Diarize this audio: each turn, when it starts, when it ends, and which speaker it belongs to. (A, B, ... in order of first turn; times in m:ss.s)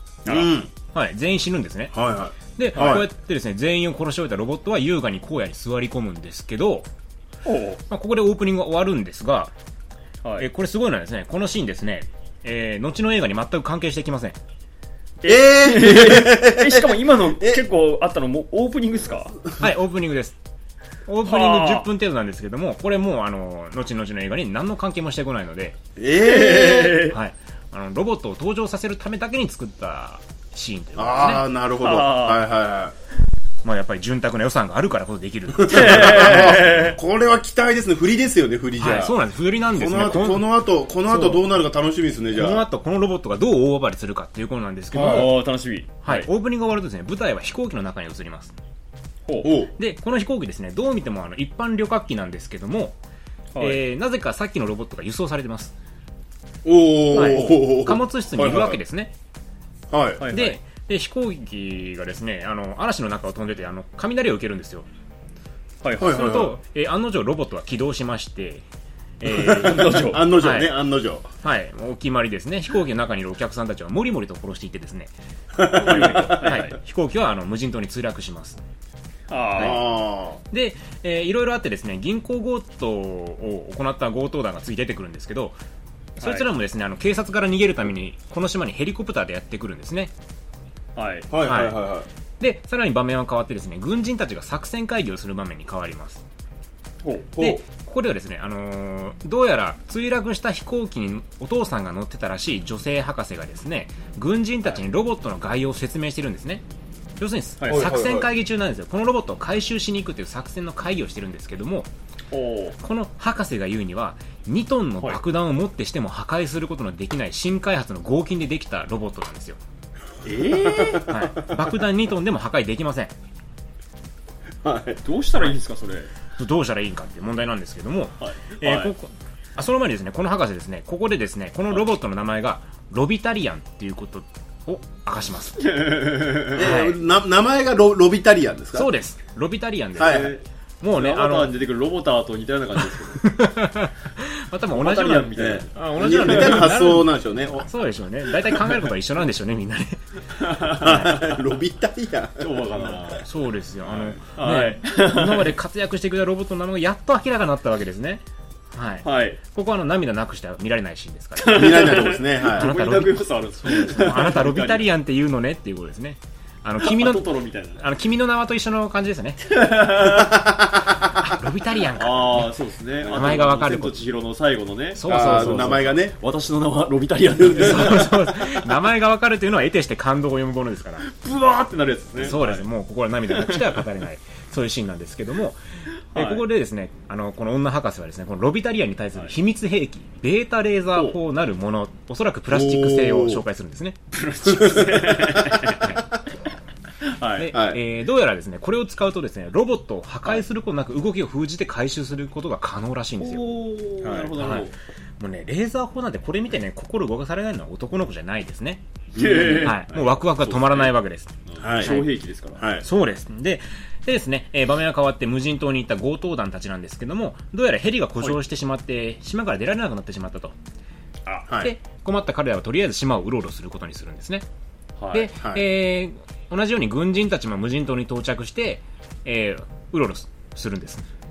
0:00.2-0:00.5 A
0:00.2-0:00.7 B
0:00.9-0:01.9 C
0:01.9-0:03.1 B
0:02.5-0:06.9 C
0:02.7-0:03.0 A
0:07.4-0:07.8 A
0:07.9-0:09.5 C
0:10.4-0:14.4 C
0:15.2-0:19.4 A
0:15.2-0:17.6 B
0:19.6-0:20.4 C
0:21.1-0:25.8 C
0:21.2-0:21.9 A
0:26.0-0:27.1 B
0:26.2-0:27.2 A
0:27.1-0:31.5 C
0:31.0-0:32.9 B
0:31.8-0:32.4 A
0:33.6-0:36.8 C
0:35.6-0:39.2 B
0:35.6-0:37.0 A
0:38.8-0:40.4 C
0:39.7-0:42.6 B
0:41.0-0:41.4 C
0:42.3-0:45.4 C
0:44.9-0:45.3 B
0:45.0-0:46.3 A
0:46.0-0:48.5 C
0:49.3-0:49.6 A
0:49.4-0:49.7 B
0:49.8-0:53.0 C
0:53.5-0:53.8 A
0:53.6-0:55.7 C
0:56.6-0:58.8 B
0:57.1-0:59.1 C
0:57.1-0:57.6 A
0:59.9-1:00.3 B
1:00.2-1:00.6 A
1:00.3-1:04.9 C
1:05.8-1:06.6 A
1:06.0-1:06.5 B
1:06.0-1:08.6 C
1:09.2-1:10.7 C
1:09.3-1:11.2 B
1:09.3-1:10.3 A
1:11.4-1:15.1 C
1:15.6-1:16.6 B
1:15.7-1:16.8 A
1:15.7-1:18.6 C
1:19.3-1:19.9 A
1:19.6-1:19.8 C
1:19.6-1:20.4 B
1:20.5-1:25.6 C
1:26.2-1:30.1 C
1:30.9-1:31.3 A
1:31.3-1:32.1 B
1:31.4-1:31.8 C
1:32.4-1:36.2 C
1:37.0-1:37.3 A
1:37.3-1:37.6 B
1:37.4-1:46.6 C
1:47.2-1:51.9 C
1:47.6-1:47.9 A
1:47.7-1:48.3 B
1:52.3-1:52.8 A
1:52.8-1:59.6 C
2:00.2-2:01.1 A
2:00.6-2:01.6 B
2:01.1-2:03.1 C
2:04.6-2:05.0 B
2:05.0-2:06.1 A
2:06.4-2:15.8 C
2:08.2-2:08.9 A
2:15.6-2:16.7 A
2:16.5-2:18.9 B
2:16.6-2:17.0 C
2:18.7-2:20.3 C
2:20.0-2:20.4 B
2:20.0-2:20.4 A
2:20.8-2:21.5 C
2:20.9-2:23.3 A
2:23.2-2:30.0 C
2:24.7-2:26.6 A
2:25.3-2:27.7 B
2:30.4-2:31.2 A
2:30.7-2:31.2 C
2:30.8-2:33.0 B
2:32.4-2:33.3 A
2:33.2-2:47.2 C
2:33.8-2:35.5 A
2:39.0-2:39.4 A
2:41.4-2:44.9 A
2:41.5-2:42.7 B
2:46.8-2:47.8 A
2:47.8-2:49.6 C
2:49.5-2:50.4 A
2:50.1-2:50.7 B
2:51.1-2:52.5 C
2:51.9-2:58.1 A
2:53.0-2:53.3 B
2:53.1-2:53.9 C
2:54.9-2:56.0 C
2:55.1-2:56.1 B
2:57.4-2:57.9 B
2:57.6-3:01.1 C
3:01.0-3:02.7 A
3:02.2-3:05.6 C
3:03.3-3:03.8 A
3:06.1-3:06.4 A
3:06.1-3:14.0 C
3:12.5-3:13.4 B
3:14.1-3:15.9 A
3:14.5-3:15.6 B
3:14.6-3:15.1 C
3:17.0-3:17.5 A
3:17.4-3:23.5 C
3:17.5-3:17.8 B
3:23.2-3:24.7 A
3:24.0-3:24.4 B
3:24.4-3:28.8 C
3:29.2-3:29.7 B
3:29.2-3:30.9 A
3:29.5-3:32.1 C
3:31.5-3:32.7 A
3:31.6-3:32.0 B
3:32.6-3:32.8 B
3:32.8-3:40.5 C
3:41.6-3:44.4 C
3:45.0-3:45.3 A
3:45.1-3:51.0 C
3:45.4-3:45.6 B